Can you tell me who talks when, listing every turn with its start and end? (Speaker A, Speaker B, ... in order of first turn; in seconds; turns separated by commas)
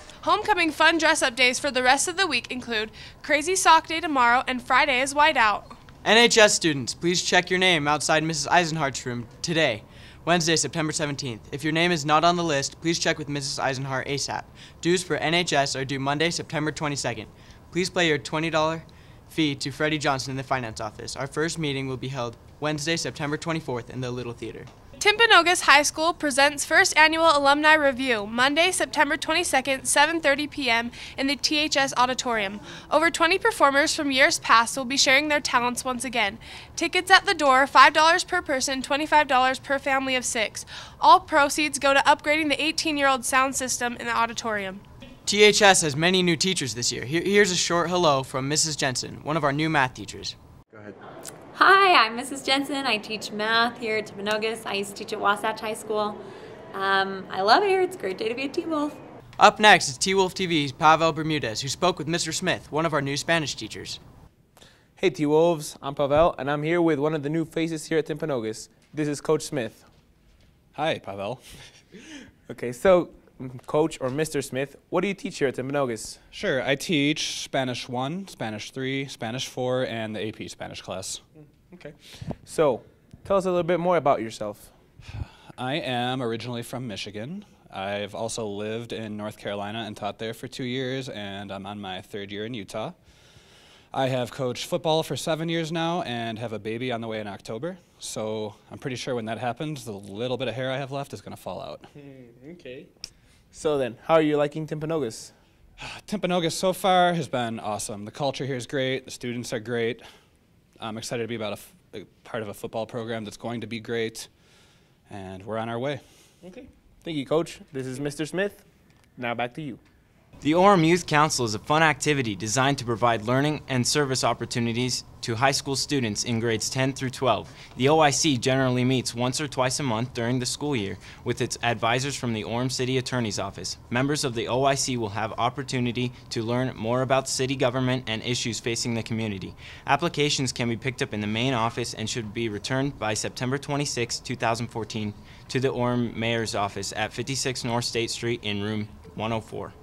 Speaker A: 0.2-5.8, Speaker B: 6.0-24.7, Speaker A: 25.0-44.8, Speaker B: 45.2-50.3, Speaker C: 51.5-56.2, Speaker C: 56.7-59.0, Speaker B: 59.4-64.0, Speaker D: 65.0-69.9, Speaker E: 70.7-71.7, Speaker D: 72.5-76.2, Speaker E: 76.3-81.2, Speaker D: 81.7-84.7, Speaker E: 85.1-93.0, Speaker E: 93.9-101.9, Speaker D: 102.0-102.9, Speaker D: 103.5-105.3, Speaker E: 105.8-110.0, Speaker E: 110.8-114.3, Speaker E: 115.1-116.0, Speaker D: 116.4-118.6, Speaker D: 119.2-119.8, Speaker F: 120.4-149.7